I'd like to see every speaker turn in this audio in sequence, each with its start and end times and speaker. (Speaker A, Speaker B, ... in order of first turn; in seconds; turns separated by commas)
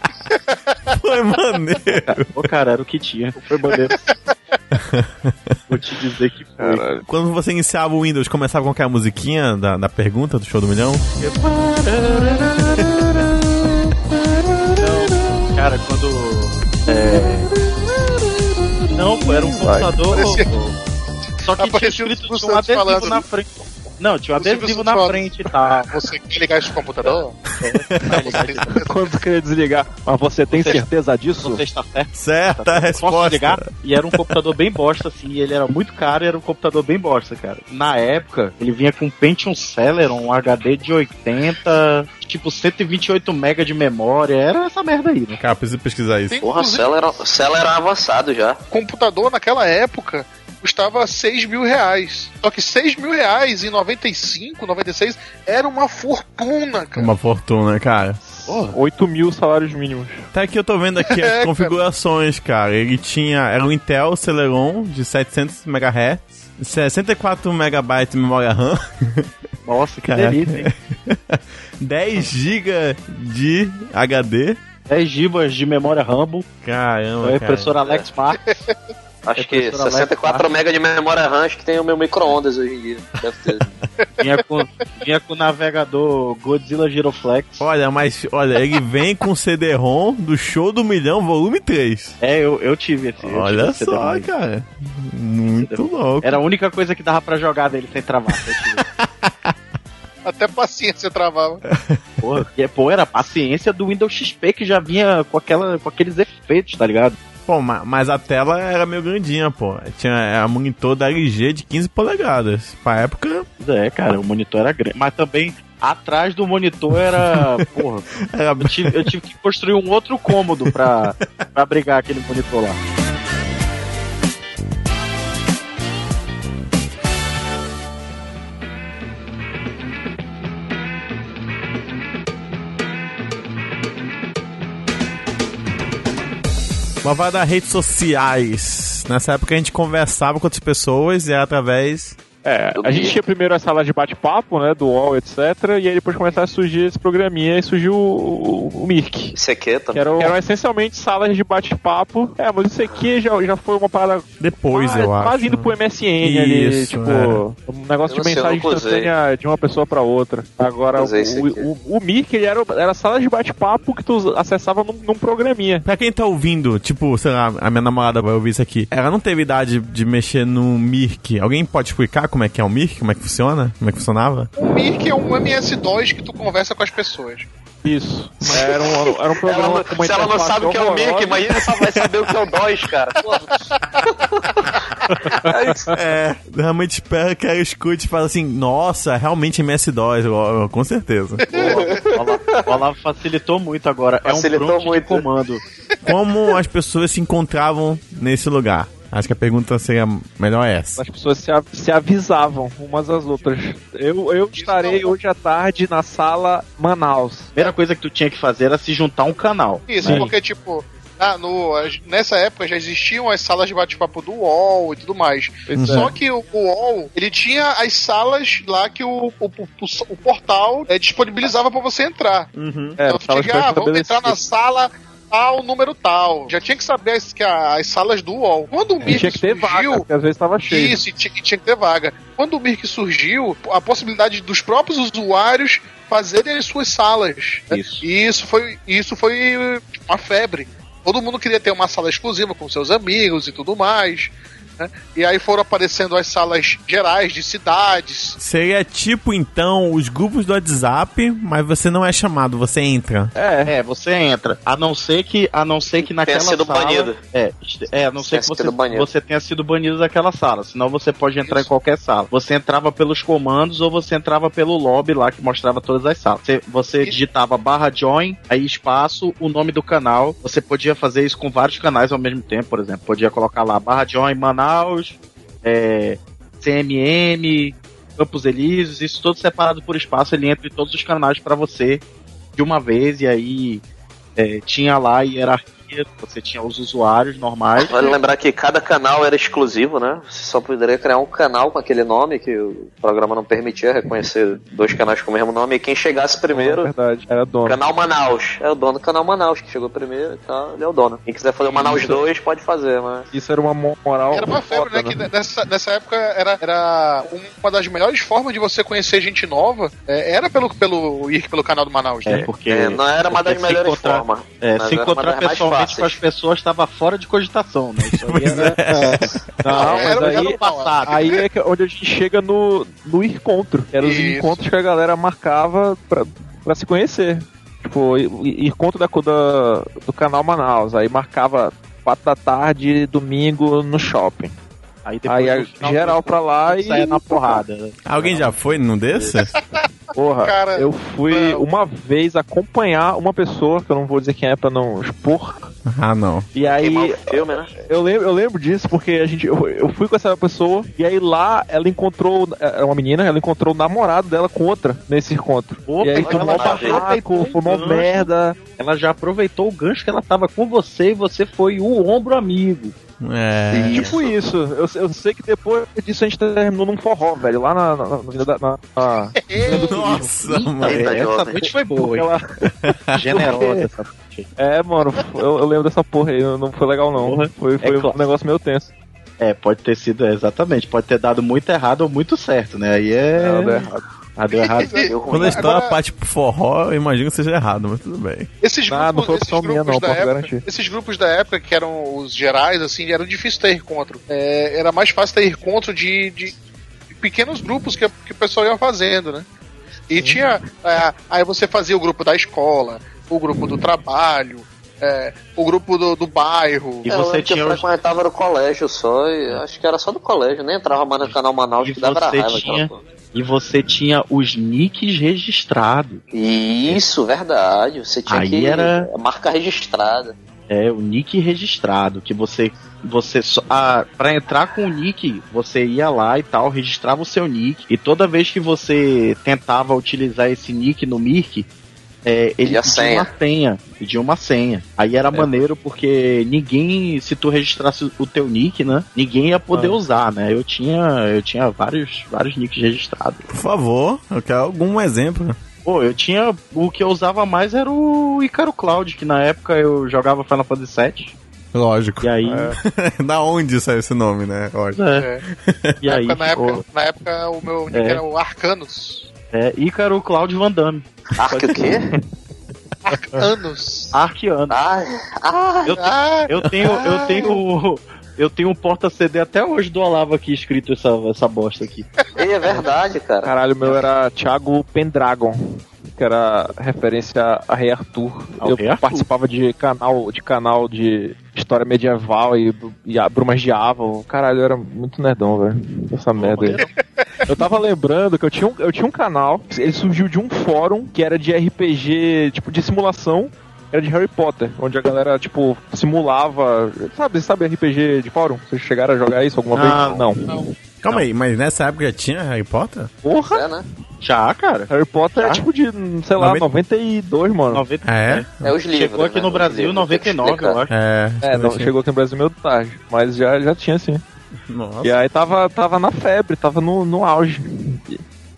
Speaker A: 0.4-0.9, Speaker B: 0.9-2.3, Speaker C: 2.1-4.0, Speaker A: 3.9-4.6, Speaker B: 4.8-5.5, Speaker C: 5.7-6.8, Speaker D: 6.6-7.0, Speaker B: 7.1-11.1, Speaker C: 11.2-13.0, Speaker C: 14.7-17.5, Speaker C: 18.9-20.8, Speaker D: 19.6-20.1, Speaker A: 20.1-20.5, Speaker C: 21.4-25.9, Speaker A: 21.6-23.2, Speaker A: 24.4-27.4, Speaker C: 27.6-28.9, Speaker A: 28.0-29.1, Speaker D: 28.7-31.6, Speaker C: 30.5-30.8, Speaker C: 31.4-45.4, Speaker B: 32.1-34.4, Speaker B: 45.4-46.4, Speaker A: 46.3-46.9, Speaker E: 46.4-48.6, Speaker A: 48.7-57.1, Speaker B: 57.0-58.2, Speaker D: 58.2-60.3, Speaker C: 58.5-58.8, Speaker B: 60.3-69.3, Speaker A: 61.0-61.7, Speaker C: 69.7-70.7, Speaker B: 70.0-74.6, Speaker C: 74.9-76.5, Speaker B: 76.6-77.7, Speaker C: 77.2-78.4, Speaker A: 78.4-78.7, Speaker E: 79.2-83.7, Speaker C: 79.4-80.5, Speaker C: 84.2-87.7, Speaker B: 87.6-92.2, Speaker C: 92.2-94.3, Speaker B: 93.2-96.4, Speaker C: 95.5-98.8, Speaker B: 98.8-99.5, Speaker A: 100.2-101.6, Speaker B: 101.7-102.0, Speaker C: 102.2-107.2, Speaker B: 107.5-113.5, Speaker C: 113.6-118.1, Speaker B: 117.0-117.6, Speaker B: 118.3-119.1, Speaker C: 118.6-122.8, Speaker B: 137.0-142.2, Speaker D: 142.4-149.4, Speaker E: 142.8-143.2, Speaker E: 149.3-150.3, Speaker D: 149.9-165.9, Speaker B: 154.4-157.4, Speaker E: 158.1-159.1, Speaker E: 160.9-161.7, Speaker B: 165.8-174.5, Speaker A: 174.6-177.5, Speaker D: 177.8-181.5, Speaker E: 178.4-183.6, Speaker D: 185.3-185.9, Speaker E: 185.4-185.9, Speaker B: 185.9-191.5, Speaker A: 191.4-192.1, Speaker C: 191.5-195.6, Speaker E: 191.7-192.1, Speaker E: 194.2-195.2, Speaker B: 196.1-201.0, Speaker D: 201.0-207.6, Speaker A: 204.6-205.1, Speaker C: 207.6-210.3, Speaker A: 209.9-222.5, Speaker D: 210.0-210.3, Speaker D: 215.7-216.1, Speaker B: 215.8-216.1, Speaker B: 222.6-223.0, Speaker D: 223.0-224.4, Speaker A: 223.1-230.1, Speaker D: 229.0-231.0, Speaker A: 230.7-248.4, Speaker C: 237.7-238.0, Speaker B: 248.4-253.3, Speaker D: 253.3-253.7, Speaker C: 253.7-282.0, Speaker E: 256.2-257.2, Speaker E: 258.2-259.1, Speaker A: 261.4-261.7, Speaker C: 282.6-283.8, Speaker C: 284.4-288.0, Speaker E: 287.8-296.9, Speaker D: 296.5-297.8, Speaker E: 297.6-303.3, Speaker D: 301.7-302.2, Speaker D: 303.3-305.2, Speaker A: 304.3-312.5, Speaker C: 312.3-319.2, Speaker E: 312.7-316.2, Speaker B: 318.0-319.4, Speaker D: 319.6-334.6, Speaker C: 319.7-321.2, Speaker A: 319.7-321.4, Speaker E: 319.8-320.1, Speaker A: 324.0-324.6, Speaker C: 335.1-338.8, Speaker D: 335.3-337.6, Speaker B: 338.1-339.5, Speaker A: 339.6-339.8, Speaker D: 340.1-345.7, Speaker A: 340.4-341.6, Speaker B: 345.9-346.5, Speaker D: 346.5-358.6, Speaker E: 346.6-347.7, Speaker C: 355.9-362.9, Speaker E: 356.1-357.0, Speaker B: 363.2-364.1, Speaker E: 363.7-364.3, Speaker D: 363.9-370.1, Speaker A: 369.4-370.1, Speaker B: 369.7-371.1, Speaker C: 369.7-372.3, Speaker E: 370.8-371.7, Speaker D: 371.6-372.7, Speaker B: 372.8-373.2, Speaker C: 373.1-374.5, Speaker D: 373.3-373.9, Speaker D: 374.6-378.9, Speaker C: 377.1-378.2, Speaker C: 379.4-385.1, Speaker D: 383.4-384.0, Speaker A: 384.6-386.0, Speaker E: 385.0-385.7, Speaker B: 385.3-388.5, Speaker A: 388.6-396.6, Speaker D: 388.9-390.6, Speaker A: 397.2-399.5, Speaker A: 400.1-407.1, Speaker C: 407.0-407.9, Speaker E: 407.1-413.0, Speaker C: 411.2-416.2, Speaker E: 416.3-420.4, Speaker C: 418.3-419.1, Speaker C: 420.7-431.7, Speaker C: 432.2-443.5, Speaker E: 432.6-433.3, Speaker D: 435.3-435.6, Speaker D: 439.7-440.0, Speaker B: 443.5-445.6, Speaker C: 445.9-451.4, Speaker B: 451.7-455.9, Speaker C: 452.2-452.8, Speaker D: 452.4-452.7, Speaker C: 454.9-455.3, Speaker A: 455.1-455.4, Speaker C: 456.0-456.8, Speaker A: 456.1-459.3, Speaker C: 457.9-458.2, Speaker C: 459.5-461.1, Speaker E: 461.4-462.1, Speaker D: 461.5-462.2, Speaker A: 463.1-464.2, Speaker C: 464.1-464.8, Speaker E: 464.7-466.0, Speaker C: 465.9-472.1, Speaker A: 466.0-467.6, Speaker E: 472.4-473.5, Speaker D: 473.4-486.8, Speaker C: 478.6-479.3, Speaker C: 486.4-486.9, Speaker A: 486.8-487.2, Speaker D: 487.5-500.7, Speaker C: 499.7-500.3, Speaker B: 501.0-503.1, Speaker D: 503.2-503.7, Speaker E: 503.5-503.8, Speaker C: 504.2-505.6, Speaker D: 504.9-507.8, Speaker B: 506.4-506.6, Speaker C: 507.7-510.9, Speaker B: 508.0-508.8, Speaker E: 508.6-510.8, Speaker B: 510.9-511.9, Speaker D: 511.4-514.2, Speaker B: 514.7-515.2, Speaker D: 515.0-518.2